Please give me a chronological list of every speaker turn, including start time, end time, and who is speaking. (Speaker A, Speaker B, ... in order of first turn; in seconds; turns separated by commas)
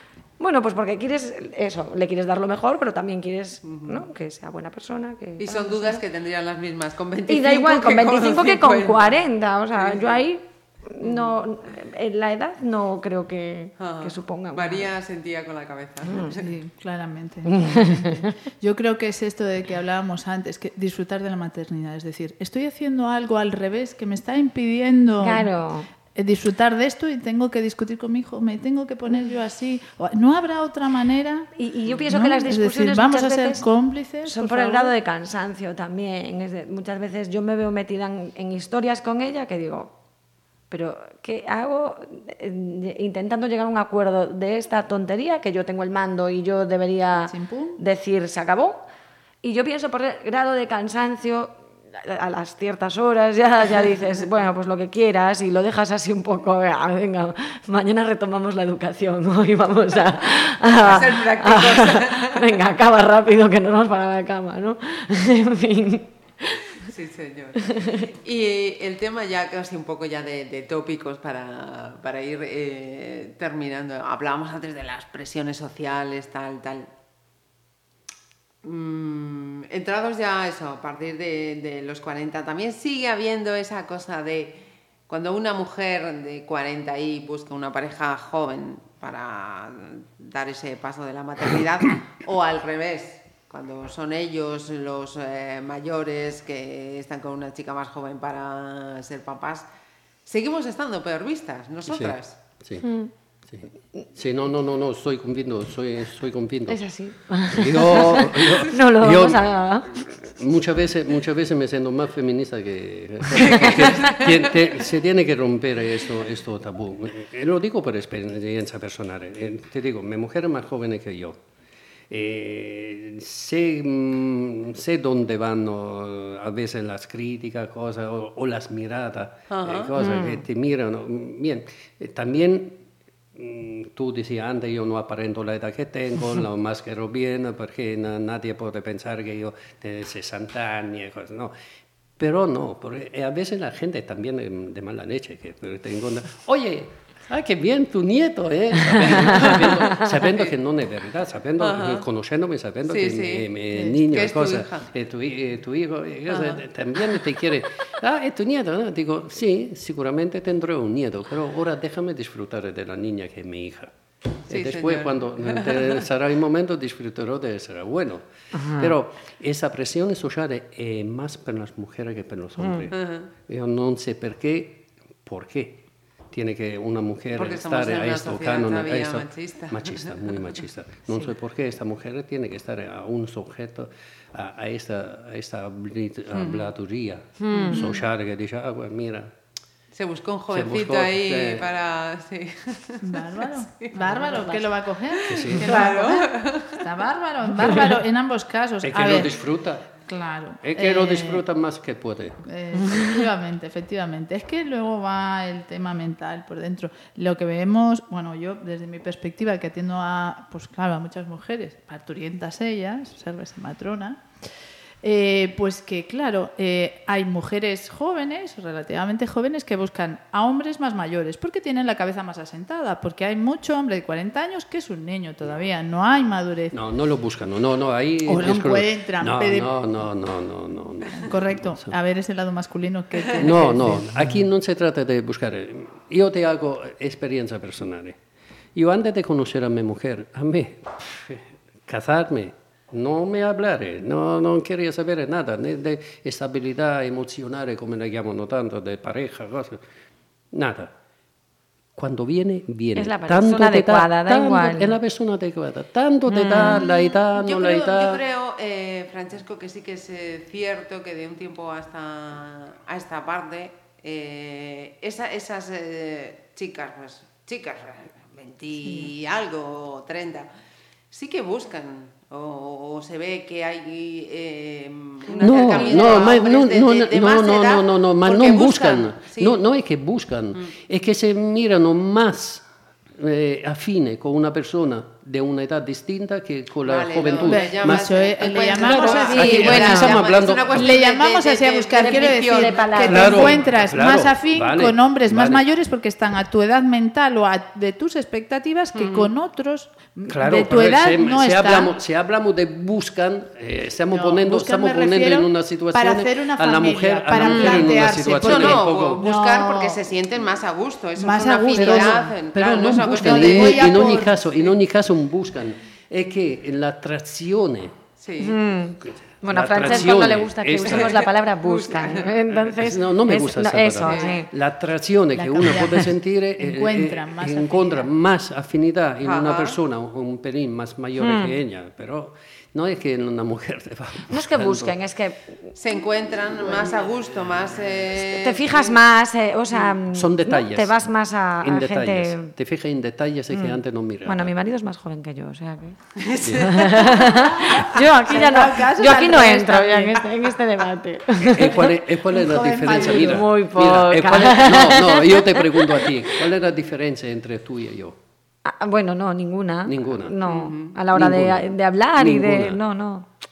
Speaker A: 0.4-6.0, Speaker B: 3.6-4.0, Speaker B: 5.4-9.2, Speaker A: 7.3-14.9, Speaker B: 11.0-11.3, Speaker B: 13.8-16.5, Speaker A: 16.1-16.3, Speaker C: 16.4-25.5, Speaker A: 17.4-18.3, Speaker A: 25.2-25.9, Speaker C: 26.1-31.5, Speaker A: 31.6-33.6, Speaker C: 32.1-34.9, Speaker A: 34.2-39.9, Speaker A: 40.7-48.8, Speaker C: 47.3-47.8, Speaker A: 49.4-66.6, Speaker B: 60.8-62.4, Speaker B: 66.8-76.9, Speaker A: 67.7-68.0, Speaker B: 78.6-99.7, Speaker B: 100.2-102.4, Speaker D: 101.9-102.8, Speaker A: 102.8-103.1, Speaker D: 103.5-106.8, Speaker A: 106.7-110.1, Speaker D: 107.5-109.5, Speaker D: 110.0-121.4, Speaker B: 113.4-114.5, Speaker A: 113.5-114.0, Speaker D: 122.1-132.8, Speaker B: 129.5-129.9, Speaker A: 130.0-130.4, Speaker D: 133.3-141.5, Speaker D: 142.2-163.9, Speaker B: 150.3-150.5, Speaker B: 151.6-152.1, Speaker B: 152.8-154.9, Speaker B: 156.3-156.6, Speaker D: 164.5-189.3, Speaker B: 164.5-166.0, Speaker A: 168.5-168.9, Speaker A: 172.6-172.9, Speaker B: 172.9-173.3, Speaker B: 177.3-180.4, Speaker B: 186.3-186.7, Speaker A: 187.4-187.8, Speaker B: 187.5-188.0, Speaker B: 189.9-196.8, Speaker D: 190.5-191.7, Speaker C: 193.0-199.3, Speaker D: 195.2-195.8, Speaker A: 197.6-197.9, Speaker D: 198.8-199.9, Speaker C: 200.1-201.4, Speaker D: 200.6-202.4, Speaker C: 202.4-214.2, Speaker C: 215.0-226.8, Speaker D: 226.7-232.0, Speaker C: 228.3-229.7, Speaker C: 231.2-234.1, Speaker D: 233.4-238.2, Speaker D: 238.7-249.8, Speaker D: 250.5-250.9, Speaker D: 251.9-258.2, Speaker A: 252.9-254.9, Speaker A: 256.3-256.8, Speaker B: 257.1-270.5, Speaker B: 271.1-279.6, Speaker A: 275.3-276.4, Speaker D: 275.4-288.1, Speaker B: 286.8-293.6, Speaker C: 287.4-301.9, Speaker A: 288.6-290.2, Speaker D: 289.2-290.9, Speaker A: 292.0-293.6, Speaker D: 293.1-295.6, Speaker B: 298.9-299.3, Speaker D: 300.3-309.2, Speaker C: 304.1-310.0, Speaker B: 307.4-314.3, Speaker C: 311.2-312.3, Speaker D: 312.5-318.0, Speaker C: 313.1-314.3, Speaker B: 318.2-318.6, Speaker A: 318.4-324.5, Speaker D: 319.4-321.2, Speaker B: 320.9-322.4, Speaker D: 322.7-334.9, Speaker B: 324.0-324.4, Speaker C: 325.3-328.1, Speaker B: 329.2-329.8, Speaker A: 331.2-331.5, Speaker A: 334.3-335.7, Speaker B: 335.8-339.0, Speaker A: 338.3-342.5, Speaker B: 339.7-340.0, Speaker D: 340.1-341.1, Speaker D: 341.6-344.5, Speaker A: 343.5-346.0, Speaker B: 346.1-347.5, Speaker D: 346.4-346.7, Speaker A: 346.6-352.0, Speaker C: 347.5-350.2, Speaker D: 351.4-358.2, Speaker C: 352.3-353.4, Speaker A: 352.9-356.3, Speaker A: 358.6-363.3, Speaker D: 359.9-360.4, Speaker B: 360.4-360.9, Speaker D: 361.1-362.8